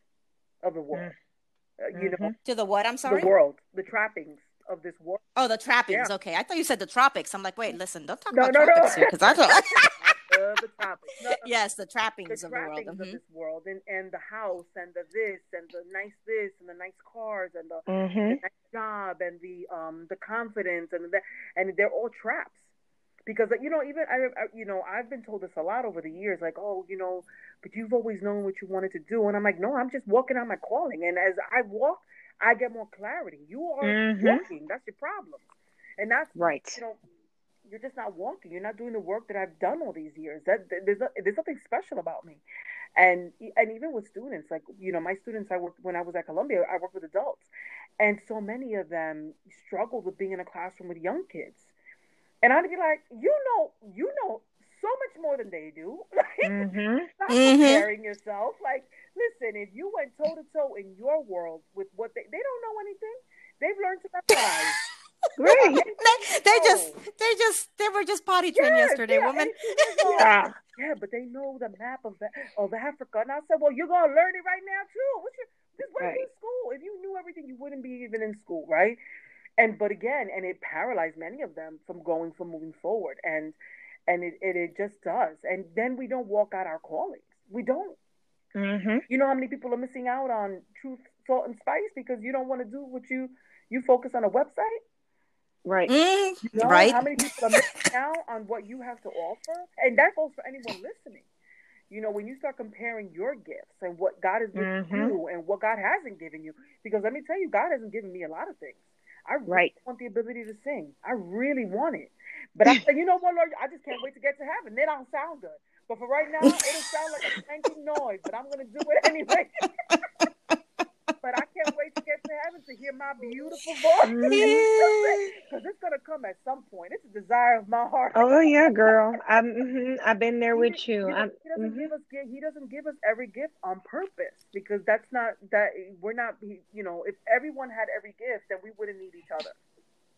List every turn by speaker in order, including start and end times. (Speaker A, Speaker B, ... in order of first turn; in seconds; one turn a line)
Speaker A: 0.6-1.1
Speaker A: 1.8-2.3
Speaker B: 1.9-2.4
Speaker C: 2.5-3.3
Speaker A: 3.0-5.2
Speaker C: 5.4-9.9
Speaker A: 8.3-11.5
Speaker C: 11.4-13.2
Speaker A: 12.3-22.6
Speaker B: 17.9-18.4
Speaker A: 23.3-35.5
Speaker B: 33.8-34.5
Speaker A: 36.0-37.0
Speaker B: 36.4-36.8
Speaker A: 37.7-42.4
Speaker A: 43.0-51.7
Speaker A: 52.4-64.8
Speaker B: 56.4-57.1
Speaker C: 57.3-57.9
Speaker B: 65.4-65.8
Speaker A: 65.5-67.0
Speaker C: 65.6-70.3
Speaker A: 68.6-79.0
Speaker B: 70.2-70.5
Speaker B: 76.0-76.3
Speaker A: 79.6-88.0
Speaker B: 88.5-89.0
Speaker A: 89.1-94.8
Speaker B: 95.7-95.9
Speaker C: 95.9-97.1
Speaker A: 96.5-101.2
Speaker A: 101.9-119.7
Speaker B: 104.5-105.2
Speaker B: 109.5-109.7
Speaker A: 121.2-129.0
Speaker B: 124.0-124.7
Speaker C: 124.2-125.3
Speaker B: 128.1-131.9
Speaker A: 130.6-139.6